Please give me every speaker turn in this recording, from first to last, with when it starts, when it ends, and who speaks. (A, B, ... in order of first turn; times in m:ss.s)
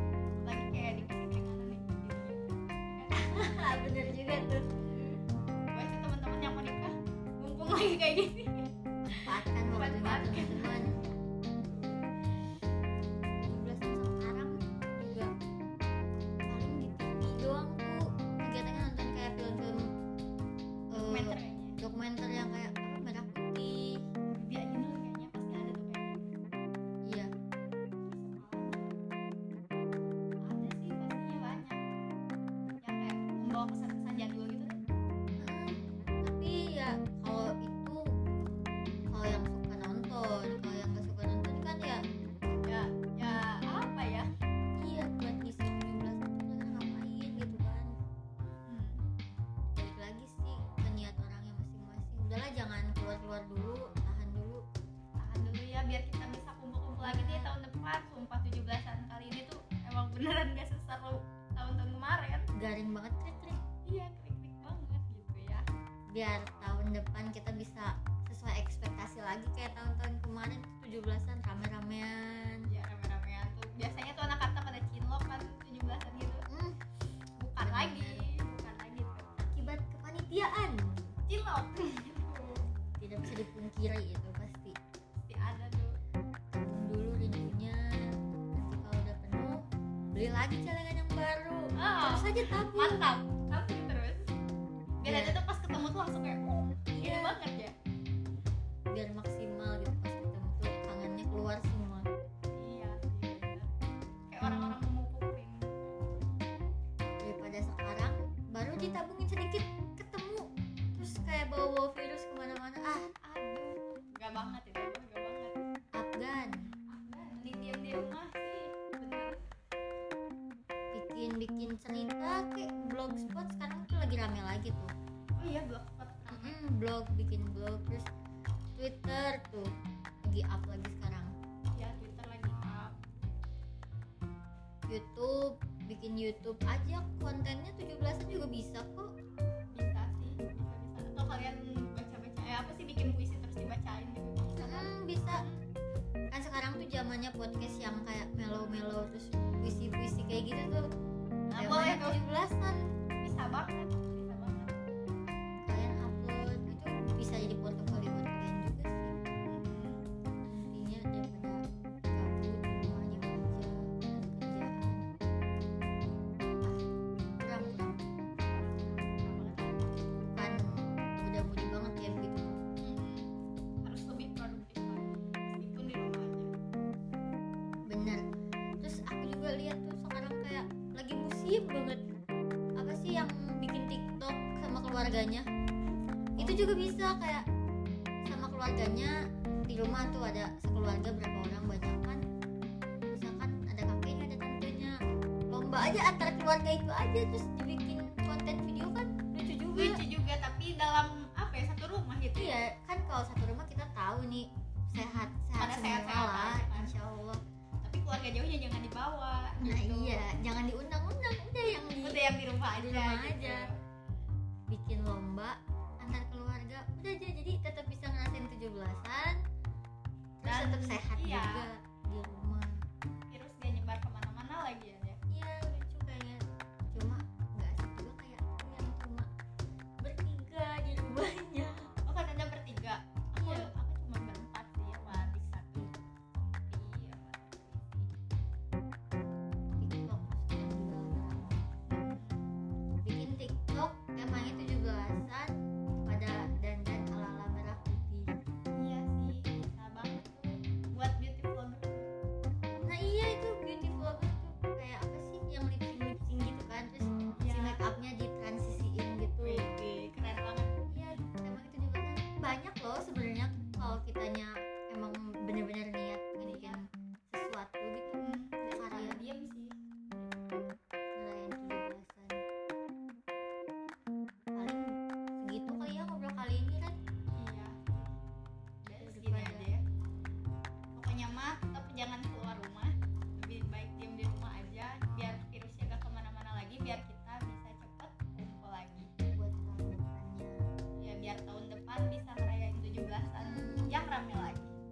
0:00.4-0:03.6 A
0:03.1-0:04.7 B
0:04.8-0:05.2 A
0:05.7-0:12.0 A
0:09.0-0:11.0 B
0:13.4-0:15.3 B
0:16.4-0:19.9 B
0:20.9-0:24.0 B
0:21.0-0:21.8 A
0:24.3-0:26.2 A
0:27.0-0:27.3 B
0:28.0-0:28.9 A
0:30.4-0:31.8 A
0:32.8-0:34.8 A
0:35.4-0:38.1 B
0:39.1-0:42.0 B
0:42.6-0:44.3 A
0:44.8-0:47.9 B
0:48.4-0:49.0 A
0:49.7-0:54.6 B
0:55.2-1:02.5 A
0:57.0-0:57.5 B
1:02.5-1:03.6 B
1:03.8-1:05.6 A
1:06.1-1:12.6 B
1:12.6-1:16.4 A
1:16.5-1:16.8 B
1:17.4-1:19.3 A
1:17.6-1:18.3 B
1:19.4-1:21.1 B
1:21.3-1:22.7 A
1:23.0-1:24.8 B
1:25.2-1:26.0 A
1:26.5-1:33.1 B
1:31.8-1:34.3 A
1:35.0-1:37.7 A
1:35.0-1:35.4 B
1:37.0-1:37.4 B
1:38.9-1:42.1 B
1:42.6-1:43.7 A
1:44.3-1:46.4 A
1:47.2-1:53.1 B
1:53.2-1:55.6 A
1:55.9-1:56.6 B
1:56.9-1:59.4 A
2:00.9-2:04.9 B
2:05.4-2:06.6 A
2:06.3-2:08.1 B
2:08.8-2:09.7 B
2:10.2-2:11.3 B
2:11.7-2:13.3 A
2:14.9-2:19.1 B
2:19.7-2:25.6 A
2:24.6-2:25.4 B
2:26.3-2:30.9 B
2:31.5-2:32.8 B
2:31.5-2:32.2 A
2:33.2-2:34.8 A
2:35.6-2:39.1 B
2:39.4-2:40.0 A
2:40.5-2:45.1 B
2:47.4-2:48.0 B
2:48.4-2:49.9 A
2:50.2-2:52.6 B
2:52.8-2:53.2 A
2:53.8-2:56.5 A
2:57.9-2:58.2 B
2:58.8-3:02.0 B
3:02.8-3:05.5 B
3:06.4-3:07.4 B
3:06.4-3:06.6 A
3:08.3-3:12.2 B
3:13.1-3:15.0 B
3:15.5-3:20.0 B
3:19.7-3:22.5 A
3:22.4-3:27.4 B
3:24.9-3:26.9 A
3:27.8-3:30.2 A
3:29.6-3:33.6 B
3:32.0-3:33.8 A
3:34.7-3:39.4 B
3:40.4-3:42.8 B
3:40.4-3:41.7 A
3:43.3-3:45.2 A
3:45.3-3:49.3 B
3:50.0-3:51.9 B
3:52.0-3:56.0 A
3:53.4-3:53.7 B
3:55.1-3:55.9 B
3:56.7-3:58.1 A
3:59.8-4:01.6 B
4:01.9-4:02.4 A
4:03.0-4:08.3 B
4:08.7-4:12.1 A
4:12.7-4:19.6 B
4:17.4-4:17.8 A
4:19.4-4:20.7 A
4:20.9-4:28.2 B
4:26.4-4:26.8 A
4:28.1-4:29.7 A
4:28.7-4:29.2 B
4:31.2-4:32.4 B
4:34.5-4:37.0 B
4:37.4-4:38.1 A
4:38.8-4:39.8 A
4:39.0-4:39.7 B
4:40.9-4:49.1 A
4:49.3-4:50.6 B
4:51.0-4:54.7 A
4:53.4-4:53.9 B